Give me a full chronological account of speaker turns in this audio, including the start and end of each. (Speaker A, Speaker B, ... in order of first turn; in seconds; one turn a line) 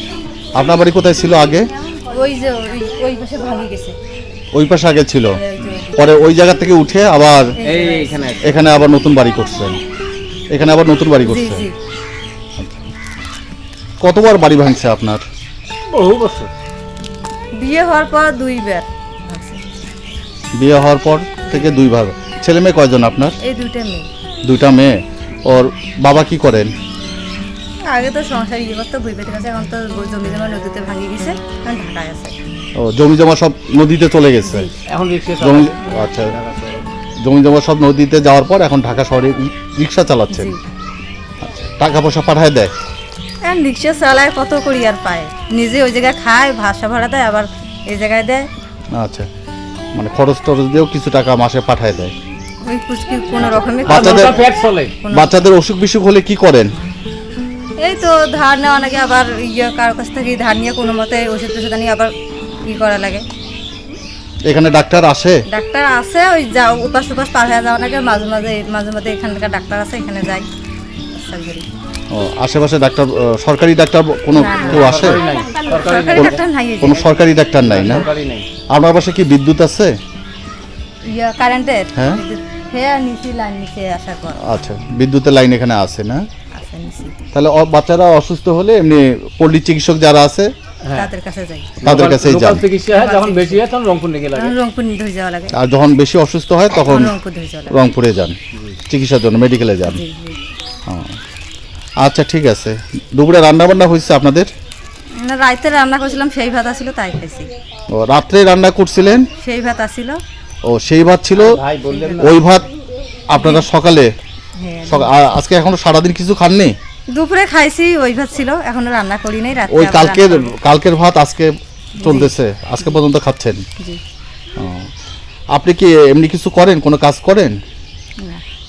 Speaker A: 0.5-1.7
Speaker B: 1.9-4.0
Speaker A: 4.5-5.4
Speaker B: 5.4-6.1
Speaker A: 5.9-7.5
Speaker B: 7.6-8.3
Speaker C: 7.6-8.8
Speaker A: 8.4-9.8
Speaker A: 10.5-11.7
Speaker B: 11.2-11.7
Speaker A: 12.6-12.8
Speaker A: 14.0-15.2
Speaker C: 15.9-16.5
Speaker B: 17.5-19.6
Speaker A: 20.6-23.4
Speaker B: 23.4-24.1
Speaker A: 24.4-26.7
Speaker B: 27.9-32.4
Speaker A: 32.8-34.7
Speaker B: 34.4-34.7
Speaker C: 34.9-36.9
Speaker A: 35.4-36.4
Speaker A: 37.2-40.5
Speaker B: 40.3-40.6
Speaker A: 41.4-42.7
Speaker B: 43.4-48.5
Speaker A: 48.9-49.3
Speaker A: 49.9-52.1
Speaker B: 52.6-55.4
Speaker A: 53.8-54.4
Speaker C: 53.9-54.9
Speaker A: 55.1-56.7
Speaker B: 57.8-62.1
Speaker B: 62.6-63.2
Speaker A: 64.5-65.4
Speaker B: 65.5-70.5
Speaker B: 71.1-71.7
Speaker A: 72.1-75.2
Speaker B: 74.3-77.9
Speaker C: 74.7-76.3
Speaker A: 76.1-78.1
Speaker C: 77.6-78.5
Speaker A: 78.7-80.0
Speaker B: 81.0-84.4
Speaker A: 81.9-82.2
Speaker A: 84.4-86.2
Speaker B: 86.5-87.1
Speaker A: 87.3-90.5
Speaker C: 90.9-91.1
Speaker B: 90.9-91.8
Speaker C: 91.8-94.5
Speaker A: 91.8-92.7
Speaker B: 92.9-93.6
Speaker B: 94.3-95.5
Speaker A: 95.5-97.1
Speaker B: 96.7-97.8
Speaker A: 97.7-98.4
Speaker A: 98.9-100.0
Speaker B: 99.8-100.4
Speaker A: 100.9-101.2
Speaker A: 102.0-104.5
Speaker B: 105.2-107.5
Speaker A: 107.9-109.3
Speaker B: 109.4-110.2
Speaker A: 110.6-111.6
Speaker C: 111.4-112.2
Speaker B: 111.8-112.3
Speaker A: 112.2-112.7
Speaker A: 113.3-114.1
Speaker B: 113.3-113.7
Speaker B: 114.6-115.1
Speaker A: 114.8-116.8
Speaker B: 117.1-120.5
Speaker A: 119.7-123.6
Speaker B: 122.0-123.0
Speaker A: 124.6-124.9
Speaker A: 125.5-127.5